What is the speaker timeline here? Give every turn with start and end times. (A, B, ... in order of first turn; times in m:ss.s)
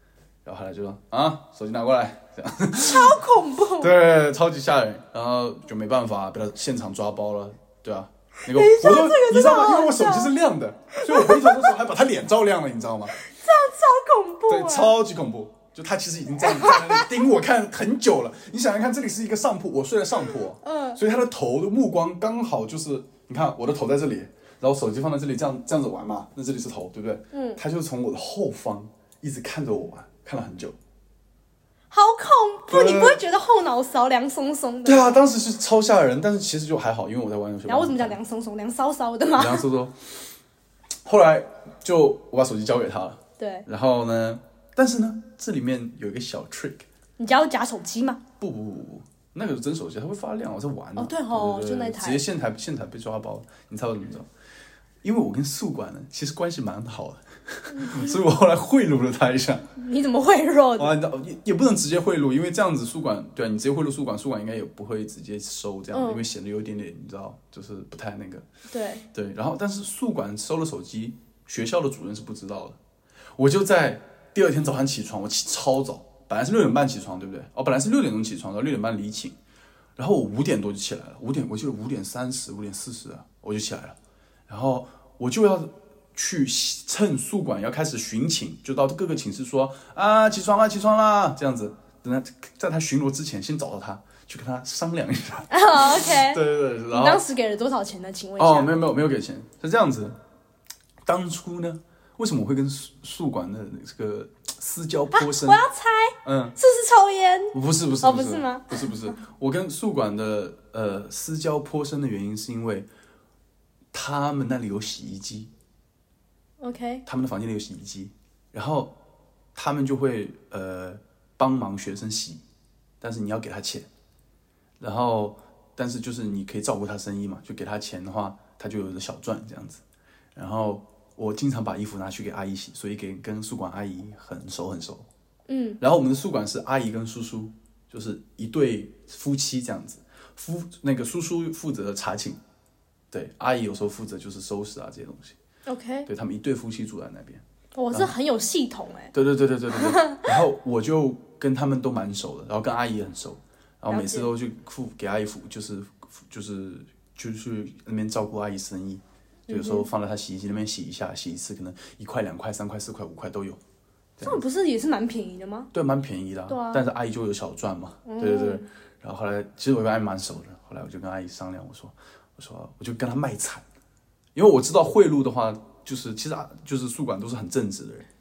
0:00.4-0:03.2 A
0:02.8-0:03.9 B
0:03.8-0:13.2 A
0:08.4-0:10.3 B
0:10.9-0:11.7 B
0:13.2-0:14.9 B
0:14.5-0:30.8 A
0:16.4-0:17.1 B
0:20.6-0:21.0 B
0:27.3-0:27.6 B
0:31.9-0:35.2 B
0:32.7-0:33.2 A
0:34.8-0:38.2 A
0:37.7-0:39.6 B
0:39.4-0:40.3 A
0:41.0-0:46.8 A
0:43.4-0:43.6 B
0:47.2-0:48.2 B
0:48.4-0:54.3 A
0:51.0-0:52.2 B
0:55.0-0:59.7 A
0:57.7-0:58.2 B
0:59.8-1:00.9 B
1:00.8-1:08.4 A
1:05.9-1:06.2 B
1:08.7-1:09.1 B
1:09.1-1:12.8 A
1:13.4-1:19.3 A
1:20.0-1:24.0 A
1:24.5-1:37.2 A
1:35.5-1:38.8 B
1:38.4-1:40.1 A
1:41.0-1:45.6 A
1:45.1-1:49.1 B
1:46.2-1:46.6 A
1:47.5-1:52.9 A
1:53.9-1:55.5 A
1:56.6-1:57.0 B
1:57.0-1:59.0 A
1:59.5-2:02.4 A
2:03.0-2:03.9 A
2:04.8-2:09.8 A
2:10.3-2:15.1 A
2:15.5-2:15.8 B
2:15.8-2:22.4 A
2:23.1-2:25.4 A
2:25.7-2:26.1 B
2:26.1-2:28.1 A
2:27.7-2:29.1 B
2:29.1-2:43.6 A
2:29.7-2:30.3 B
2:33.9-2:34.3 B
2:39.5-2:39.9 B
2:44.2-2:44.4 A
2:44.2-2:45.7 B
2:45.7-2:53.6 A
2:46.5-2:46.9 B
2:48.0-2:48.7 B
2:54.3-2:58.1 A